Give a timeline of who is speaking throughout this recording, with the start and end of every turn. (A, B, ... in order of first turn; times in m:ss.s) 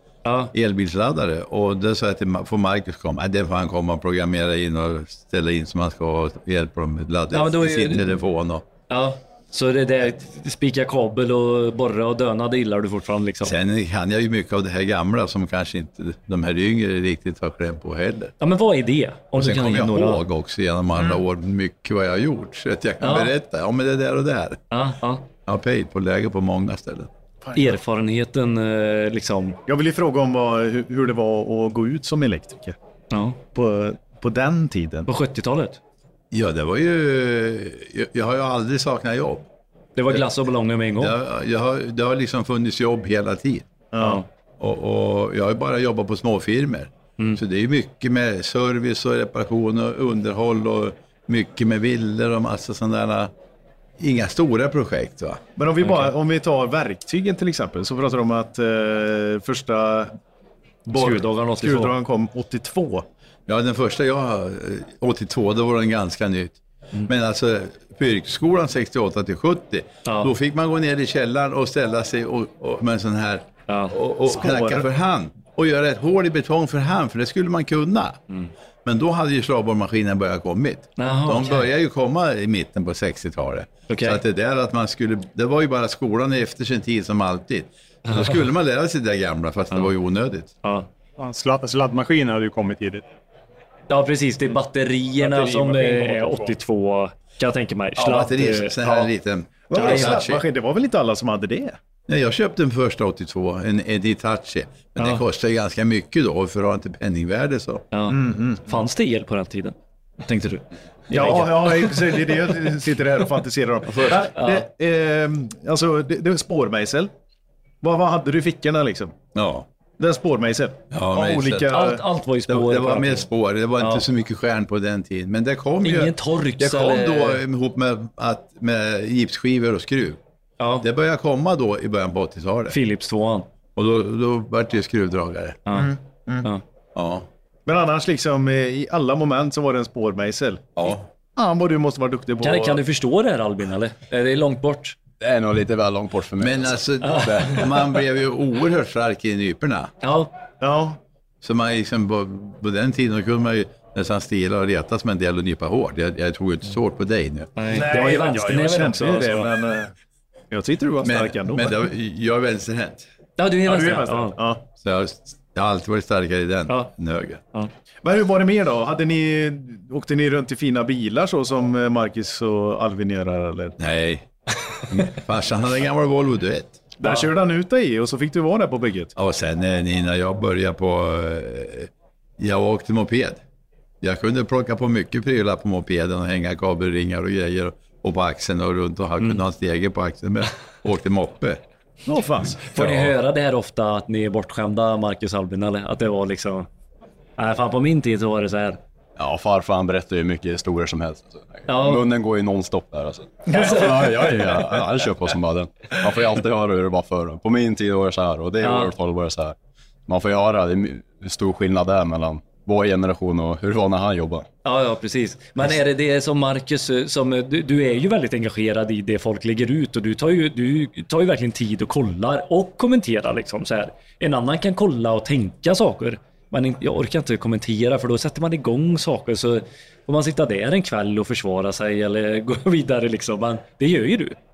0:00.2-0:00.5 A
0:00.5-0:08.6 B
0:07.3-0:08.1 A
0:08.9-0:13.6 A
0:13.4-0:18.3 B
0:18.4-0:20.2 A
0:19.3-0:24.6 B
0:23.0-0:23.3 A
0:24.7-0:25.2 A
0:25.4-0:27.1 B
0:27.5-0:27.7 C
0:27.5-0:29.6 A
0:29.7-0:32.8 C
0:33.1-0:33.4 A
0:33.5-0:35.1 C
0:35.1-0:35.8 A
0:36.3-0:39.5 B
0:40.0-0:41.2 A
0:41.0-0:43.7 B
0:43.9-0:44.2 C
0:44.0-0:44.2 A
0:44.6-0:53.3 B
0:54.0-0:55.4 B
0:55.6-1:00.1 C
0:55.8-0:56.1 A
1:00.9-1:01.9 A
1:00.9-1:03.0 C
1:03.5-1:18.2 B
1:10.0-1:10.3 A
1:13.7-1:14.0 A
1:14.3-1:14.9 C
1:18.8-1:30.5 B
1:21.0-1:21.6 A
1:23.9-1:24.2 A
1:30.6-1:30.9 A
1:31.2-1:33.0 D
1:33.9-1:38.8 A
1:35.2-1:36.6 D
1:38.0-1:40.4 B
1:39.7-1:41.8 C
1:39.8-1:40.2 A
1:42.1-1:47.8 B
1:45.0-1:45.2 A
1:47.9-1:52.2 A
1:48.1-1:48.6 C
1:51.1-1:57.1 C
1:54.0-1:54.6 A
1:57.8-1:59.1 C
1:59.3-1:59.7 B
2:00.0-2:02.0 C
2:00.9-2:01.7 B
2:01.7-2:03.3 A
2:02.5-2:10.2 B
2:03.8-2:04.0 A
2:05.8-2:07.4 A
2:10.6-2:10.9 A
2:10.8-2:12.8 B
2:12.7-2:13.5 A
2:13.7-2:15.6 B
2:15.7-2:16.6 A
2:15.7-2:16.5 C
2:16.9-2:17.3 B
2:17.7-2:20.7 C
2:20.8-2:21.0 B
2:21.3-2:22.8 C
2:22.4-2:25.0 A
2:25.2-2:27.6 E
2:26.4-2:29.9 B
2:27.0-2:27.7 A
2:30.0-2:30.3 A
2:30.6-2:31.0 C
2:31.4-2:37.8 B
2:37.6-2:39.5 A
2:37.7-2:39.9 C
2:40.5-2:41.8 C
2:41.0-2:43.1 B
2:43.4-2:44.4 A
2:43.7-2:44.6 C
2:44.8-2:47.4 B
2:46.7-2:46.9 A
2:48.0-2:53.8 C
2:53.8-2:54.3 B
2:54.9-2:56.8 B
2:57.0-2:59.1 C
2:59.2-3:03.4 B
3:04.0-3:11.6 B
3:12.0-3:12.7 C
3:12.7-3:16.7 A
3:17.4-3:18.8 A
3:19.2-3:29.6 E
3:21.7-3:22.0 A
3:23.5-3:24.3 A
3:28.6-3:28.9 A
3:30.1-3:34.5 E
3:34.6-3:54.4 A